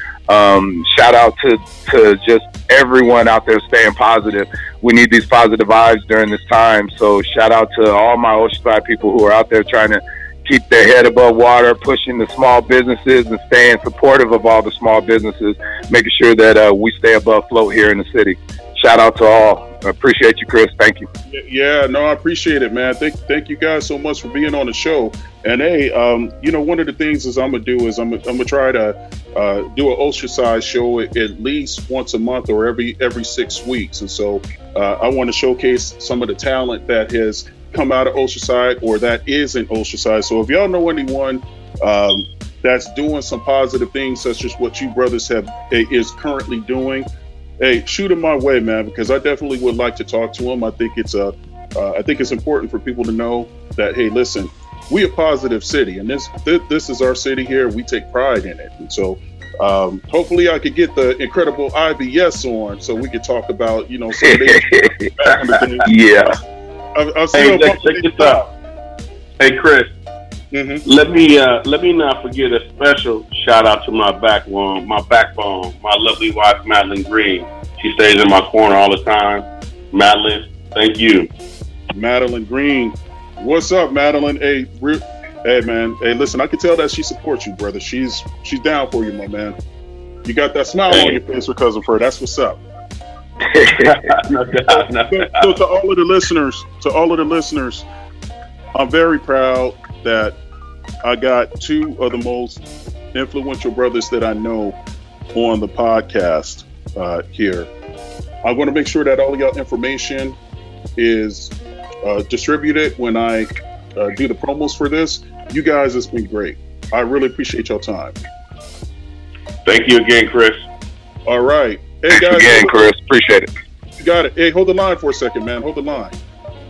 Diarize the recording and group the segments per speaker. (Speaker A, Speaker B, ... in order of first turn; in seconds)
Speaker A: 0.3-21.1, 64.2-65.1, 65.8-66.3, 93.5-93.9, 122.1-123.5
Speaker B: 21.3-47.1, 47.6-65.9, 67.0-68.5, 70.5-70.8, 81.9-89.5, 90.2-92.6, 94.7-97.8, 98.7-100.4, 101.0-104.8, 105.3-107.7, 108.4-110.4, 111.0-118.2, 121.3-122.8, 124.0-126.2
Speaker C: 67.3-68.5, 69.4-69.9, 70.8-81.3, 90.9-91.2, 93.6-95.5, 119.7-120.6